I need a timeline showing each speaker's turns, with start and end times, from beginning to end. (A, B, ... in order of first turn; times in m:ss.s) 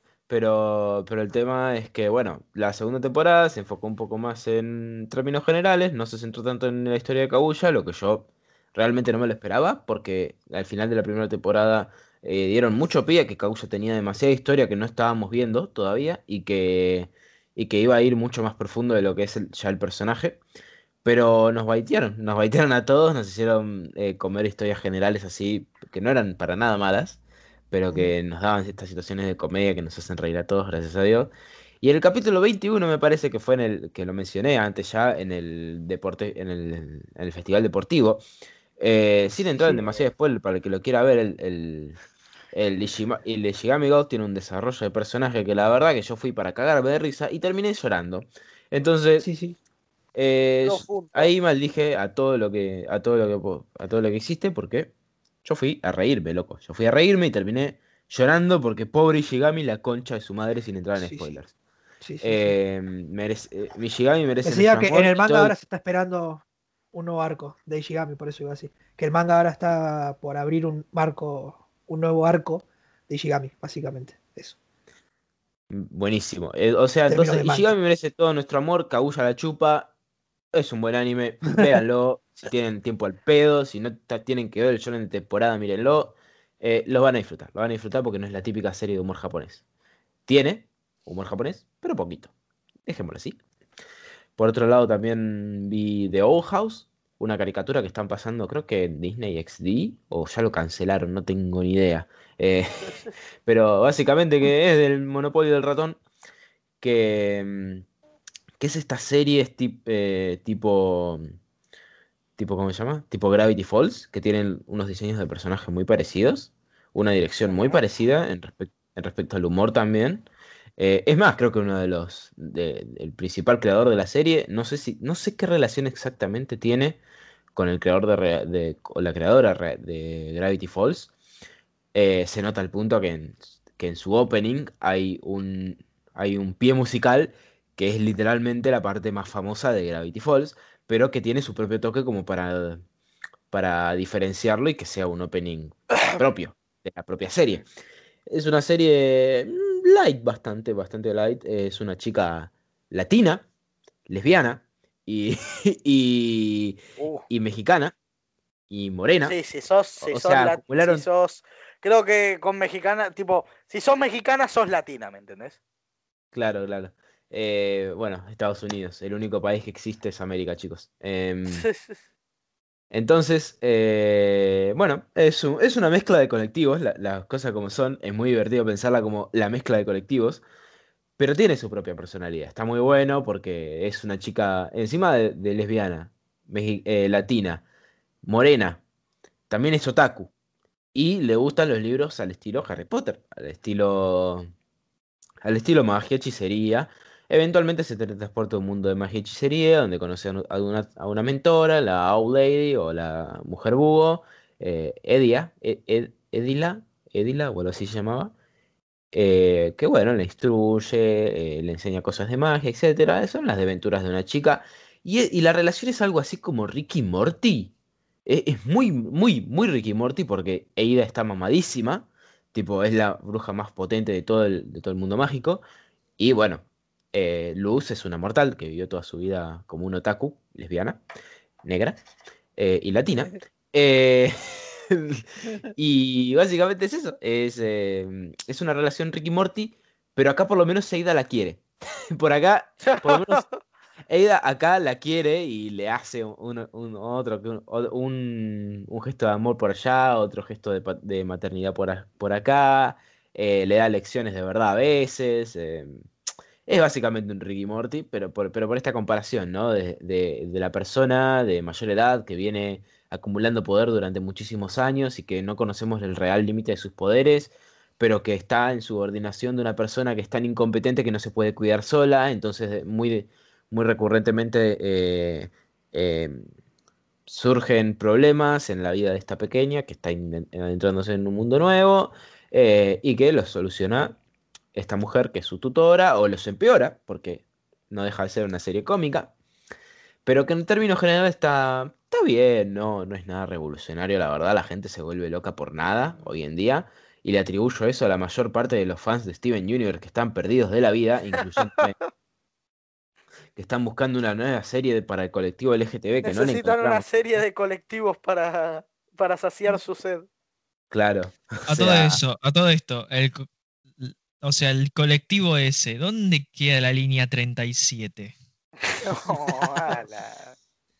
0:00.3-0:20.4 A
0:21.0-0:27.2 A
0:27.7-0:38.2 A
0:38.8-0:42.0 A
0:39.6-0:40.0 B
0:42.5-0:49.3 A
0:49.2-0:49.6 B
0:50.1-0:54.9 A
0:50.6-0:51.3 C
0:55.4-1:01.5 A
1:01.0-1:01.3 B
1:02.0-1:02.5 B
1:02.2-1:05.5 A
1:04.4-1:14.6 B
1:15.7-1:19.9 A
1:17.1-1:17.7 B
1:20.5-1:29.6 A
1:30.3-1:32.3 A
1:32.8-1:33.4 A
1:34.4-1:42.9 A
1:43.4-1:46.0 A
1:46.8-1:47.8 A
1:48.6-1:51.2 A
1:52.4-2:00.3 A
1:57.4-1:57.8 C
2:00.8-2:07.0 A
2:07.5-2:11.1 A
2:11.9-2:22.8 A
2:23.5-2:27.7 A
2:28.3-2:33.4 A
2:34.1-2:37.9 A
2:37.0-2:37.2 C
2:38.7-2:39.4 A
2:39.2-2:45.6 C
2:40.0-2:41.0 A
2:46.3-2:51.7 A
2:51.5-2:52.0 C
2:52.9-3:00.4 A
3:01.2-3:07.6 A
3:08.2-3:08.8 A
3:09.5-3:10.3 A
3:10.9-3:14.5 A
3:15.4-3:28.3 A
3:29.1-3:37.7 A
3:38.2-3:45.6 A
3:46.2-3:51.0 A
3:51.6-3:52.0 A
3:52.6-4:01.6 A
4:02.1-4:03.4 A
4:02.8-4:03.6 C
4:04.1-4:16.1 A
4:16.7-4:36.5 A
4:37.3-4:44.2 A
4:44.7-4:49.3 A
4:50.2-5:02.0 A
5:01.5-5:01.8 C
5:03.5-5:07.1 A
5:06.2-5:10.3 C
5:10.9-5:12.2 A
5:11.7-5:13.5 D
5:14.0-5:18.3 D
5:18.9-5:20.5 C